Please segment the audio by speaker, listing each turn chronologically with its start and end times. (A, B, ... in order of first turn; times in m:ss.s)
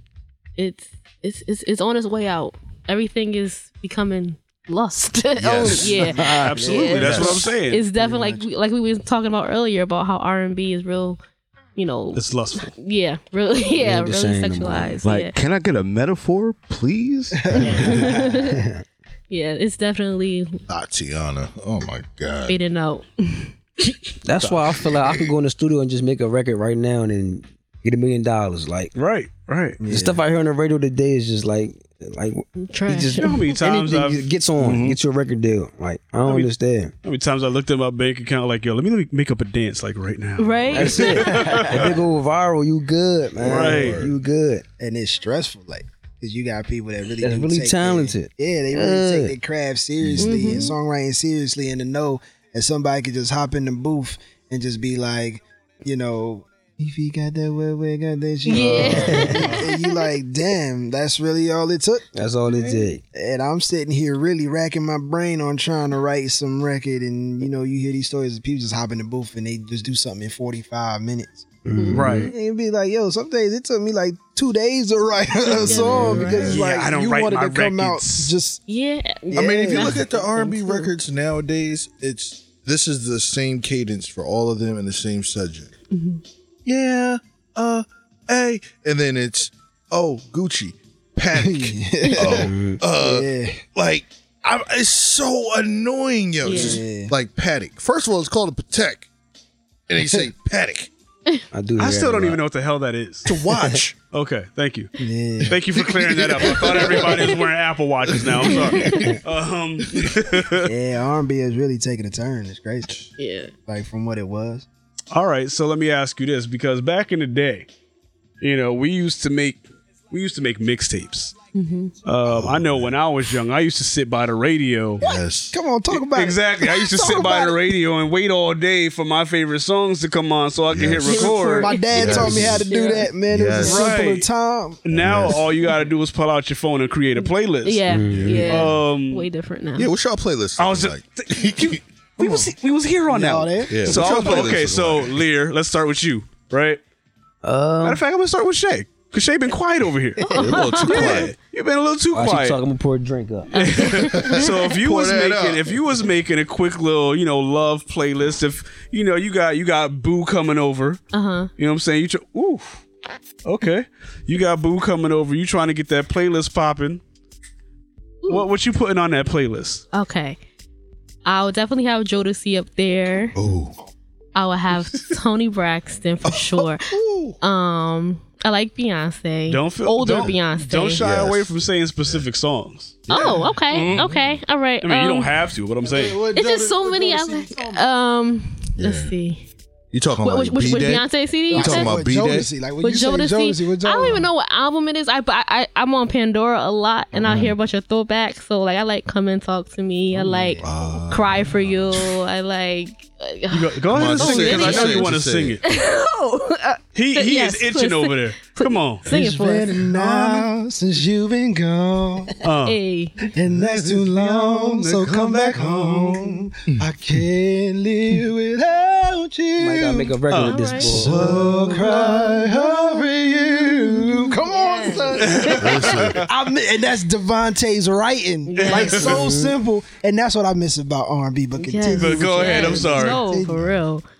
0:00.6-0:11.2 A
0:05.4-0:06.1 B
0:05.6-0:07.4 C
0:06.3-0:07.8 D
0:08.0-0:08.4 C
0:11.8-0:15.4 A
0:12.1-0:12.7 D
0:13.7-0:15.0 E
0:15.0-0:17.4 F
0:17.4-0:18.5 C
0:17.6-0:18.5 A
0:17.8-0:18.8 E
0:19.3-0:20.6 A
0:20.7-0:22.6 B
0:22.5-0:23.5 A
0:24.2-0:28.9 E
0:28.9-0:29.8 D
0:29.8-0:30.2 C
0:29.9-0:36.9 E
0:32.6-0:33.4 A
0:33.2-0:34.3 D
0:34.6-0:35.0 F
0:36.2-0:36.5 D
0:37.0-0:41.9 D
0:40.4-0:41.4 A
0:40.7-0:44.6 E
0:41.5-0:41.8 C
0:43.4-0:43.8 C
0:43.4-0:44.0 D
0:43.5-0:44.1 B
0:44.8-1:11.5 C
0:47.2-0:49.4 E
0:50.0-0:50.4 B
0:50.2-0:50.8 A
0:58.4-1:00.0 A
0:58.8-0:59.5 E
1:02.1-1:03.0 E
1:11.6-1:12.3 E
1:11.7-1:12.0 A
1:11.9-1:12.3 D
1:12.1-1:18.6 C
1:15.5-1:16.6 A
1:15.7-1:16.5 E
1:16.5-1:18.3 D
1:18.7-1:20.9 A
1:19.3-1:20.0 C
1:19.3-1:25.7 B
1:25.9-1:26.2 A
1:26.6-1:39.1 B
1:31.4-1:33.6 C
1:32.3-1:32.8 E
1:36.4-1:36.8 A
1:36.4-1:37.1 C
1:39.9-1:40.9 B
1:40.0-1:40.3 C
1:41.5-1:42.4 E
1:41.8-1:43.3 D
1:43.2-1:44.0 B
1:44.1-1:44.9 D
1:45.0-1:45.6 C
1:45.5-1:50.7 D
1:45.7-1:47.3 B
1:46.7-1:47.0 C
1:48.1-1:49.1 B
1:48.7-1:49.1 A
1:49.9-1:50.2 B
1:50.6-1:53.1 C
1:53.2-1:53.5 A
1:53.7-1:54.6 C
1:55.1-1:57.7 D
1:58.4-2:01.3 D
2:01.5-2:01.9 A
2:02.0-2:05.0 D
2:02.2-2:02.9 B
2:05.0-2:05.6 B
2:05.0-2:07.6 C
2:06.1-2:11.7 D
2:10.7-2:11.2 B
2:11.0-2:14.8 C
2:11.1-2:13.1 A
2:11.9-2:12.7 B
2:13.3-2:13.9 B
2:13.6-2:14.3 D
2:14.8-2:17.9 D
2:14.9-2:15.4 B
2:17.2-2:19.9 A
2:17.9-2:18.5 E
2:18.1-2:18.5 B
2:18.5-2:19.3 D
2:19.8-2:21.8 B
2:20.6-2:26.8 D
2:22.2-2:22.5 C
2:23.1-2:24.0 C
2:23.7-2:25.2 B
2:27.4-2:28.0 E
2:27.8-2:32.6 D
2:30.2-2:31.3 A
2:30.3-2:31.3 B
2:32.1-2:33.5 E
2:33.5-2:34.5 A
2:33.6-2:41.0 D
2:34.1-2:35.8 B
2:41.1-2:41.5 A
2:41.6-2:42.8 D
2:43.4-2:47.0 D
2:48.3-2:49.8 D
2:49.9-2:50.4 A
2:51.2-2:53.3 A
2:53.3-2:53.8 B
2:54.3-2:56.8 A
2:56.2-2:57.4 B
2:57.4-3:01.0 A
2:59.5-3:03.0 D
3:01.0-3:02.2 B
3:03.1-3:04.4 B
3:03.1-3:05.3 A
3:03.7-3:04.1 F
3:04.8-3:06.2 D
3:05.8-3:07.8 C
3:05.9-3:09.4 A
3:08.8-3:09.1 B
3:09.9-3:12.5 B
3:10.2-3:12.0 A
3:11.5-3:14.3 C
3:12.8-3:25.1 A
3:17.2-3:17.5 B
3:20.1-3:20.6 C
3:20.6-3:22.0 B
3:23.5-3:25.6 D
3:23.9-3:25.6 B
3:25.6-3:30.4 A
3:26.9-3:29.0 D
3:29.1-3:32.3 C
3:32.4-3:32.8 D
3:32.6-3:33.2 A
3:33.3-3:40.2 C
3:34.0-3:36.4 D
3:39.6-3:41.6 E
3:40.3-3:40.6 D
3:40.4-3:41.2 A
3:40.8-3:53.7 C
3:41.1-3:41.8 B
3:41.8-3:42.8 A
3:44.4-3:45.6 A
3:45.2-3:46.2 D
3:45.6-3:46.2 B
3:48.4-3:49.2 A
3:48.6-3:49.1 D
3:49.0-3:49.5 E
3:51.6-3:54.0 A
3:51.9-3:53.3 D